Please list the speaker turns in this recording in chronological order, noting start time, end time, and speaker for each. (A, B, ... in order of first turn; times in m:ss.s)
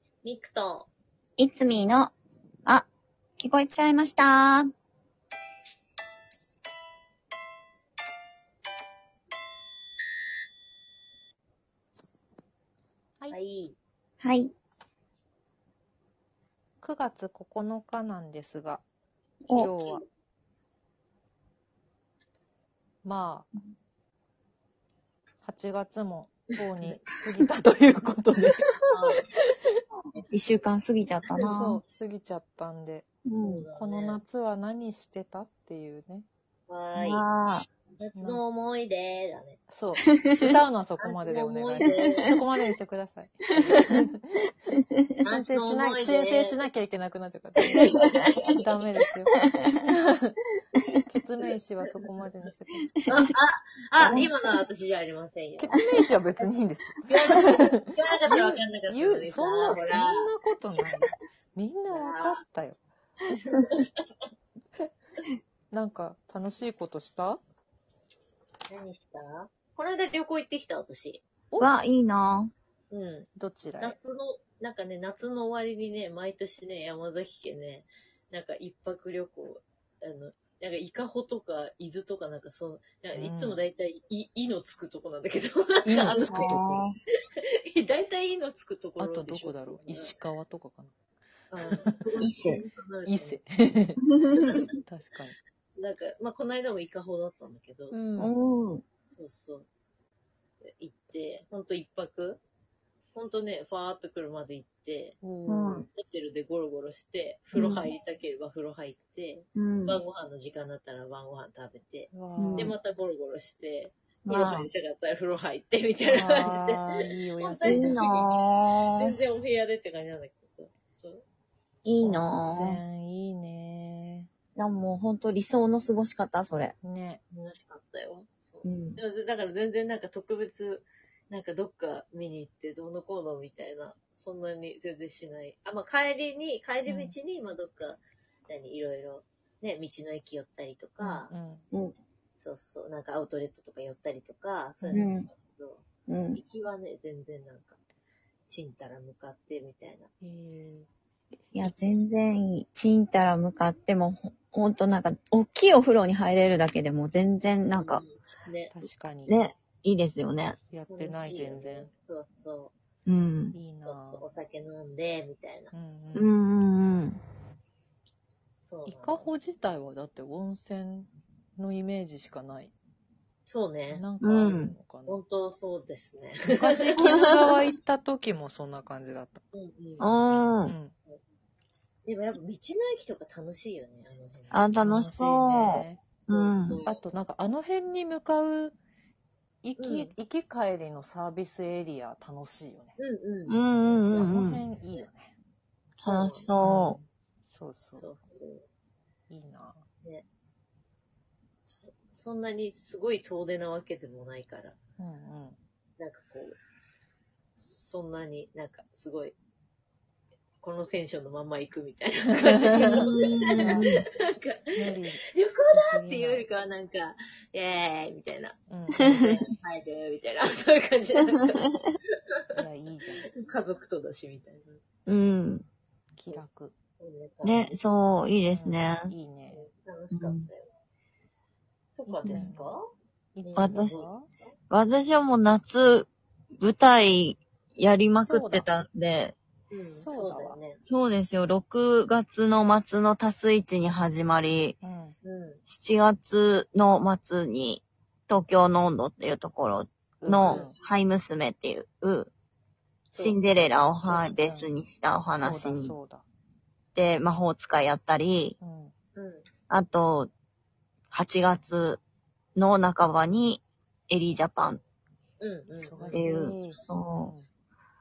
0:00.2-0:00.9 A
0:01.4-0:02.1 B
0:03.4-0:04.7 B
0:13.3-0:13.8 A
0:14.2-0:14.5 B
0:16.8-0:18.8 C
0:19.5-0:20.0 C
0:23.0-0:23.5 C
0:25.4-0:28.6 C
0:28.9-0:29.3 A
0:30.3-0:31.8 B
0:31.3-0:31.6 A
0:31.4-0:33.1 C
0:33.3-0:33.6 B
0:33.4-0:34.2 A
0:33.8-0:36.3 C
0:36.7-0:37.3 A
0:37.0-0:37.7 B
0:38.0-0:39.6 A
0:39.7-0:44.5 C
0:40.1-0:40.5 B
0:41.0-0:42.4 A
0:42.0-0:42.3 B
0:43.5-0:43.9 A
0:44.7-0:45.2 B
0:45.2-0:46.6 A
0:45.2-0:47.9 C
0:47.7-0:48.5 A
0:48.6-0:50.4 C
0:49.4-0:49.8 B
0:51.0-0:52.9 C
0:53.1-0:55.8 A
0:54.0-0:54.3 C
0:54.0-0:54.3 B
0:55.6-0:57.6 C
0:57.1-1:00.3 A
0:58.3-1:02.8 C
1:01.9-1:02.4 A
1:03.5-1:04.0 A
1:05.7-1:07.4 C
1:08.7-1:11.2 A
1:11.6-1:12.5 B
1:12.9-1:13.3 A
1:13.4-1:14.0 C
1:13.8-1:26.6 A
1:23.2-1:23.6 C
1:25.8-1:26.8 C
1:26.3-1:26.9 B
1:27.7-1:30.2 A
1:29.0-1:30.9 C
1:31.5-1:33.4 A
1:32.2-1:32.6 B
1:33.1-1:34.0 C
1:34.2-1:34.6 B
1:34.8-1:35.4 C
1:35.8-1:38.3 A
1:37.9-1:38.2 C
1:38.2-1:38.8 B
1:39.1-1:39.7 A
1:40.6-1:42.4 A
1:43.2-1:45.2 A
1:45.2-1:45.8 C
1:45.5-1:45.9 B
1:45.9-1:58.3 A
1:47.6-1:47.9 B
1:49.6-1:50.0 B
1:52.1-1:52.8 C
1:52.4-1:52.7 B
1:54.2-1:54.7 B
1:56.0-1:58.0 C
1:57.6-1:59.2 B
1:58.9-2:01.2 A
2:01.8-2:02.8 B
2:02.0-2:04.3 C
2:04.6-2:06.7 B
2:06.8-2:07.2 C
2:07.3-2:21.3 A
2:08.6-2:09.0 B
2:16.9-2:17.2 C
2:21.0-2:21.6 C
2:22.4-2:27.8 A
2:24.8-2:25.1 C
2:24.9-2:25.3 B
2:26.1-2:26.4 B
2:28.5-2:30.1 A
2:30.2-2:30.9 C
2:31.5-2:38.0 B
2:37.8-2:38.7 A
2:38.7-2:39.4 C
2:39.3-2:40.6 B
2:40.7-2:41.9 C
2:40.9-2:42.7 A
2:43.1-2:43.6 B
2:43.5-2:44.2 C
2:43.8-2:45.7 A
2:45.7-2:46.4 C
2:46.2-2:47.2 B
2:48.7-2:49.3 A
2:48.9-2:52.7 C
2:53.5-2:54.1 A
2:53.9-2:55.2 C
2:54.2-2:54.8 B
2:55.1-2:57.4 A
2:56.6-2:59.4 C
2:59.5-3:00.5 A
3:00.0-3:00.8 B
3:00.7-3:00.9 C
3:02.0-3:04.7 A
3:04.5-3:06.8 B
3:04.8-3:06.0 C
3:06.3-3:07.0 A
3:06.8-3:08.8 C
3:09.6-3:12.9 C
3:09.8-3:10.1 A
3:13.0-3:14.4 A
3:13.5-3:14.6 B
3:14.2-3:15.3 C
3:16.0-3:16.5 A
3:16.0-3:17.0 B
3:16.6-3:18.1 C
3:17.9-3:18.6 A
3:19.3-3:19.8 C
3:21.7-3:24.8 A
3:25.0-3:25.6 C
3:26.0-3:26.6 A
3:27.6-3:29.4 A
3:30.6-3:41.7 A
3:32.5-3:33.1 C
3:33.0-3:34.0 B
3:33.6-3:33.9 C
3:34.8-3:36.5 C
3:38.7-3:39.1 C
3:39.0-3:39.3 B
3:42.6-3:43.3 C
3:43.4-3:44.8 A
3:45.1-3:45.6 B
3:46.2-3:46.7 C
3:47.0-3:47.7 A
3:47.4-3:49.1 B
3:48.5-3:49.7 C
3:49.5-3:50.7 A
3:50.1-3:50.5 B
3:52.0-3:52.8 A
3:52.1-3:52.8 C
3:52.2-3:52.5 B
3:53.4-3:54.3 C
3:53.4-3:54.1 A
3:53.6-3:54.0 B
3:54.7-3:59.4 B
3:58.2-3:58.7 C
3:59.7-4:00.8 A
3:59.9-4:00.6 C
4:00.8-4:04.8 B
4:04.8-4:05.2 C
4:05.2-4:05.6 A
4:05.7-4:12.3 B
4:10.2-4:10.8 C
4:10.4-4:10.8 A
4:13.1-4:13.4 C
4:13.2-4:16.0 B
4:14.1-4:14.7 C
4:15.3-4:16.2 C
4:17.0-4:18.6 B
4:18.6-4:18.9 C
4:19.2-4:19.5 A
4:19.7-4:20.3 B
4:21.1-4:22.0 B
4:22.6-4:24.8 B
4:25.4-4:26.3 A
4:25.8-4:27.5 C
4:26.1-4:27.3 B